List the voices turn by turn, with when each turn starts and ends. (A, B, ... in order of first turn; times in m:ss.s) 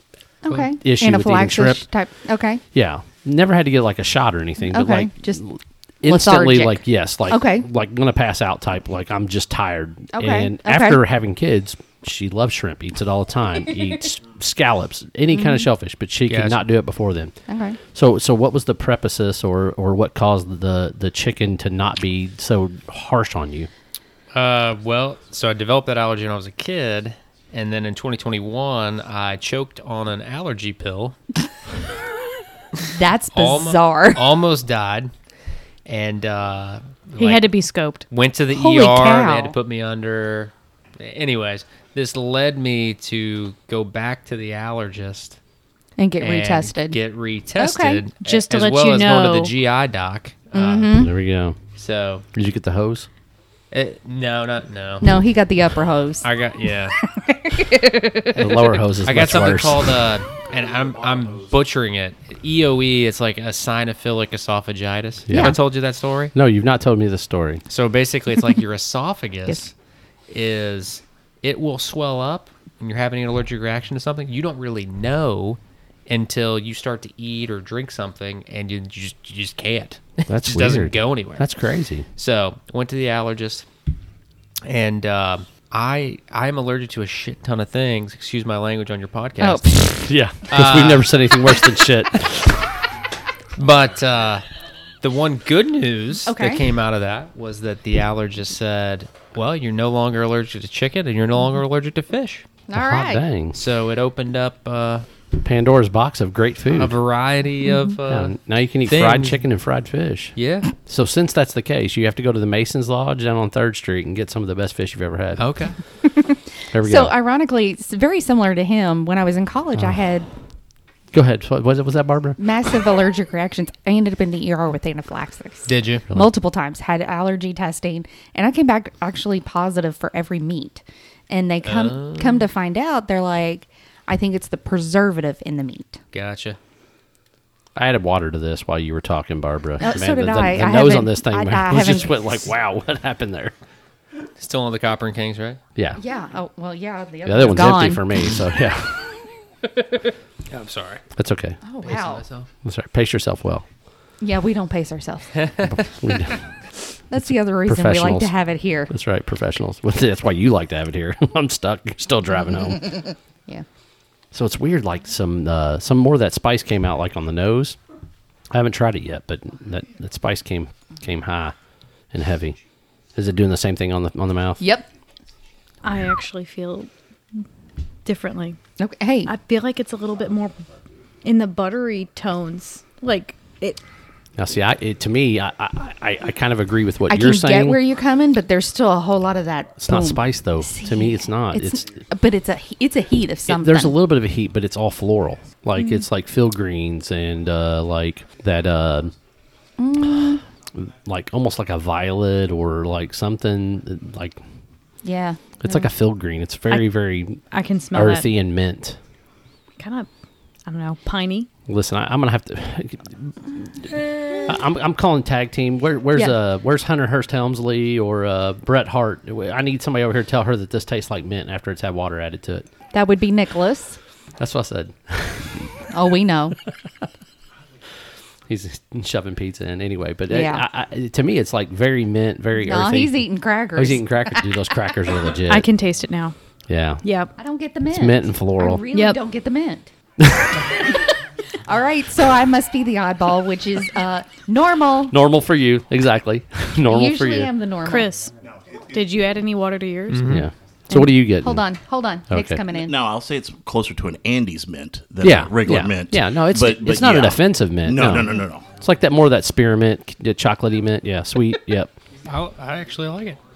0:00.4-0:02.6 A
0:00.8-0:01.8 B
0:02.7-0:17.3 B
0:04.6-0:05.4 A
0:06.0-0:07.6 A
0:10.1-0:11.0 A
0:15.3-0:15.7 A
0:16.3-0:16.6 C
0:17.5-0:17.8 A
0:17.9-0:23.7 B
0:24.3-0:31.2 C
0:32.9-0:34.3 A
0:33.3-0:35.1 C
0:35.8-0:37.5 C
0:37.2-0:38.0 D
0:38.1-0:45.4 C
0:38.5-0:39.5 A
0:46.0-0:47.0 A
0:46.2-0:50.9 C
0:47.6-0:48.0 A
0:48.2-0:49.5 D
0:50.5-0:51.1 A
0:50.9-0:51.6 B
0:51.8-0:52.2 C
0:52.3-0:53.1 B
0:53.7-0:55.1 C
0:55.0-0:56.3 A
0:56.2-0:57.0 C
0:57.0-0:58.2 A
0:58.4-0:59.9 B
0:58.4-1:06.3 C
1:05.3-1:05.5 B
1:05.3-1:05.6 A
1:06.3-1:07.6 B
1:07.7-1:09.7 C
1:10.3-1:21.5 C
1:20.2-1:22.1 B
1:22.2-1:23.6 C
1:24.6-1:29.7 C
1:29.4-1:29.9 A
1:29.8-1:32.6 B
1:30.5-1:31.1 C
1:33.6-1:34.5 C
1:35.0-1:42.4 C
1:36.3-1:36.6 A
1:42.7-1:43.2 A
1:42.7-1:43.6 B
1:43.5-1:45.0 C
1:45.4-1:47.0 B
1:46.7-1:48.3 C
1:48.1-1:55.4 B
1:48.8-1:49.4 C
1:50.4-1:50.7 C
1:55.4-1:55.8 C
1:56.0-2:00.3 A
1:56.7-1:57.1 B
2:01.1-2:02.4 B
2:02.4-2:16.0 A
2:05.7-2:06.0 C
2:11.6-2:12.4 C
2:16.1-2:16.6 C
2:17.8-2:23.5 B
2:19.8-2:22.5 A
2:24.4-2:25.6 C
2:26.0-2:28.3 A
2:27.2-2:29.2 B
2:29.7-2:31.0 C
2:31.2-2:31.6 B
2:31.6-2:32.2 A
2:31.8-2:32.5 C
2:32.6-2:33.6 B
2:34.2-2:35.4 A
2:35.7-2:36.4 B
2:37.1-2:38.9 A
2:37.2-2:38.3 B
2:38.9-2:42.9 B
2:44.3-2:47.8 B
2:48.5-2:51.5 B
2:52.1-2:52.6 B
2:53.2-2:54.6 B
2:54.6-2:54.9 A
2:55.8-2:56.9 D
2:58.0-2:58.6 D
2:58.8-2:59.3 A
2:59.3-3:00.6 D
3:01.2-3:03.8 D
3:04.4-3:07.8 B
3:07.1-3:14.0 A
3:09.8-3:11.8 B
3:13.5-3:19.1 B
3:15.8-3:16.0 D
3:19.8-3:20.4 A
3:20.7-3:24.4 B
3:25.0-3:25.4 A
3:25.6-3:29.0 B
3:27.5-3:28.3 D
3:29.8-3:30.1 D
3:30.7-3:31.5 D
3:31.7-3:42.6 B
3:42.9-3:44.0 A
3:44.4-3:45.9 B
3:45.9-3:46.6 A
3:48.5-3:55.7 B
3:50.3-3:50.6 A
3:52.6-3:54.6 A
3:55.5-3:56.3 D
3:56.7-3:57.0 B
3:57.0-3:57.3 D
3:57.4-3:59.9 A
3:57.9-3:58.8 B
3:58.9-3:59.2 D
4:00.2-4:00.6 B
4:01.6-4:05.2 A
4:05.1-4:07.5 B
4:06.8-4:08.1 A
4:07.8-4:08.3 D
4:08.9-4:10.2 D
4:10.1-4:10.4 C
4:10.2-4:11.6 B
4:10.9-4:13.0 A
4:12.3-4:12.6 B
4:12.7-4:18.7 E
4:15.2-4:21.9 B
4:22.2-4:23.4 C